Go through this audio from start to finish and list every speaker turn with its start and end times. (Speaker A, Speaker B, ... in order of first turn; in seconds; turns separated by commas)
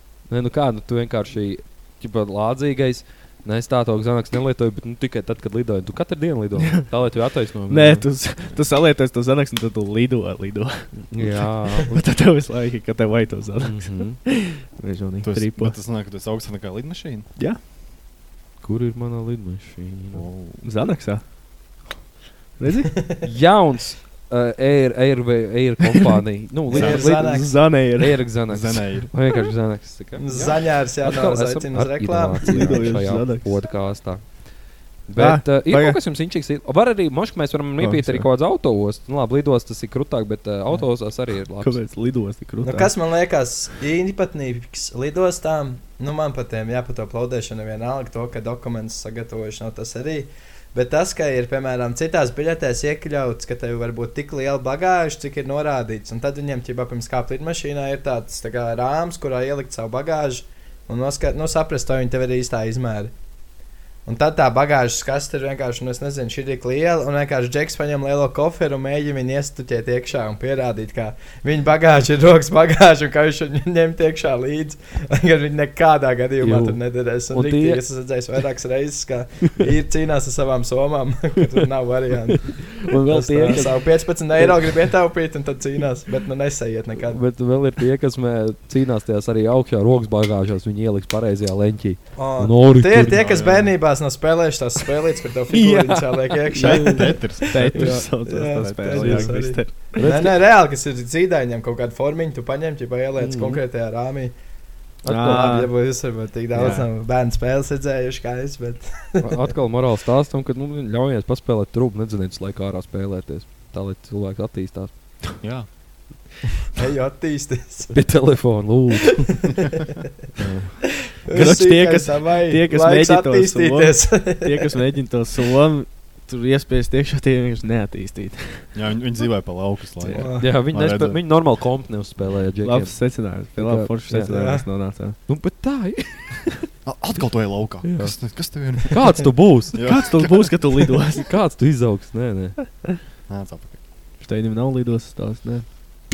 Speaker A: 0.3-8.1, Speaker B: 6.6-7.1, Speaker B: 7.7-11.2, Speaker A: 10.9-11.9, Speaker B: 11.9-15.8, Speaker A: 13.6-14.2, Speaker C: 15.2-17.3, Speaker A: 18.6-20.2, Speaker C: 20.1-20.7, Speaker B: 20.6-21.9, Speaker B: 22.6-22.9, Speaker A: 23.2-41.8, Speaker D: 26.7-27.6, Speaker B: 26.8-28.2, Speaker C: 28.5-29.1, Speaker D: 30.2-33.0, Speaker B: 32.4-33.5, Speaker B: 35.1-36.0, Speaker B: 37.8-38.3, Speaker B: 41.6-42.9, Speaker D: 42.6-63.1, Speaker D: 64.0-87.2, Speaker A: 76.4-77.8, Speaker A: 82.5-84.9, Speaker A: 87.1-93.3, Speaker D: 92.1-97.4, Speaker C: 93.1-93.7, Speaker A: 95.5-100.4, Speaker C: 96.6-97.9, Speaker B: 97.5-100.0, Speaker D: 98.2-104.4, Speaker A: 103.2-103.6, Speaker A: 105.0-105.4, Speaker D: 105.0-109.4, Speaker B: 105.0-105.7, Speaker B: 106.5-106.9, Speaker A: 109.2-114.9, Speaker C: 115.4-115.7, Speaker D: 116.7-118.3, Speaker A: 117.9-119.4, Speaker A: 120.4-120.8, Speaker D: 121.2-124.5, Speaker B: 121.3-128.7, Speaker C: 128.7-131.4, Speaker B: 130.0-130.2, Speaker D: 130.1-130.5, Speaker A: 130.4-136.5, Speaker B: 132.6-135.2, Speaker D: 134.3-134.7, Speaker C: 136.8-140.9, Speaker A: 137.8-139.8, Speaker B: 139.8-141.2, Speaker A: 141.2-142.6, Speaker C: 143.3-143.8, Speaker B: 144.2-145.7